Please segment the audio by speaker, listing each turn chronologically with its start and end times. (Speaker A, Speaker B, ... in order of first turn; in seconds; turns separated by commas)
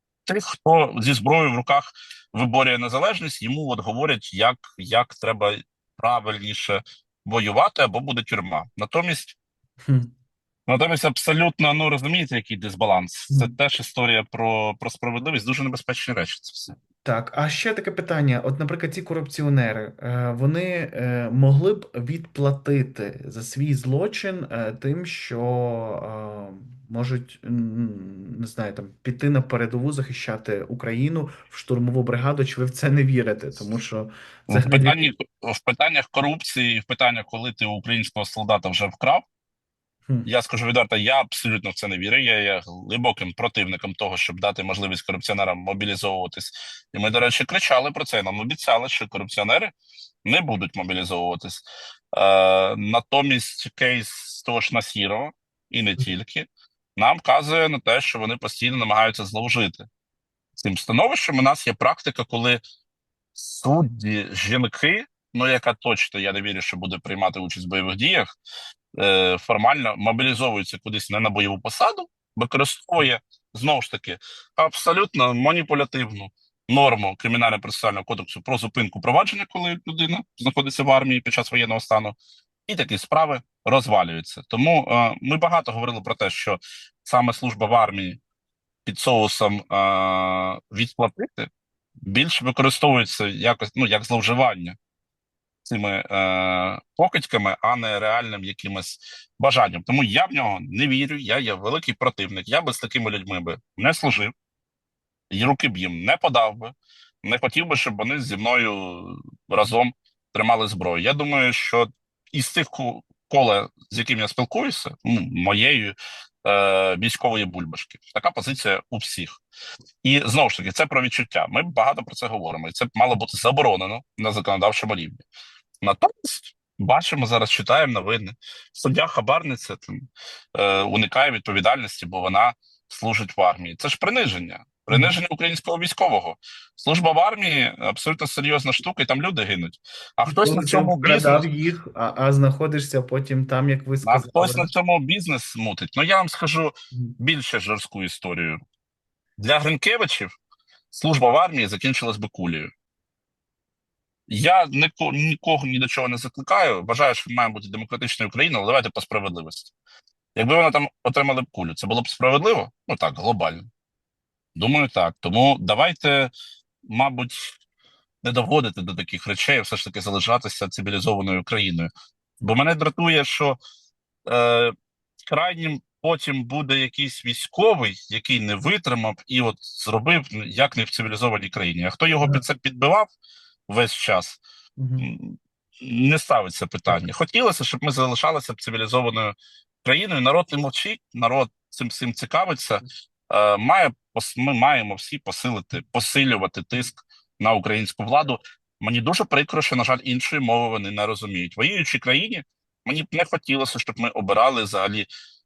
Speaker A: 0.2-9.3, Speaker B: 9.8-10.1, Speaker A: 10.7-16.7, Speaker B: 17.0-35.0, Speaker A: 34.5-39.2, Speaker A: 40.2-49.7, Speaker A: 50.2-59.9, Speaker A: 60.6-62.6, Speaker A: 63.4-68.3, Speaker A: 68.9-88.2, Speaker A: 88.8-91.5, Speaker A: 92.0-94.8, Speaker A: 95.6-104.3, Speaker A: 105.3-119.4, Speaker A: 120.0-125.2, Speaker A: 125.8-141.5, Speaker B: 140.2-144.7, Speaker A: 144.0-148.6, Speaker A: 149.4-150.3, Speaker A: 150.9-152.7, Speaker A: 154.3-159.7, Speaker A: 160.3-163.7, Speaker A: 164.6-166.3, Speaker A: 166.9-167.6, Speaker A: 168.2-171.9, Speaker A: 172.4-173.6, Speaker A: 174.3-174.7, Speaker A: 175.3-183.1, Speaker A: 183.7-184.4, Speaker B: 184.8-185.1, Speaker A: 185.0-205.1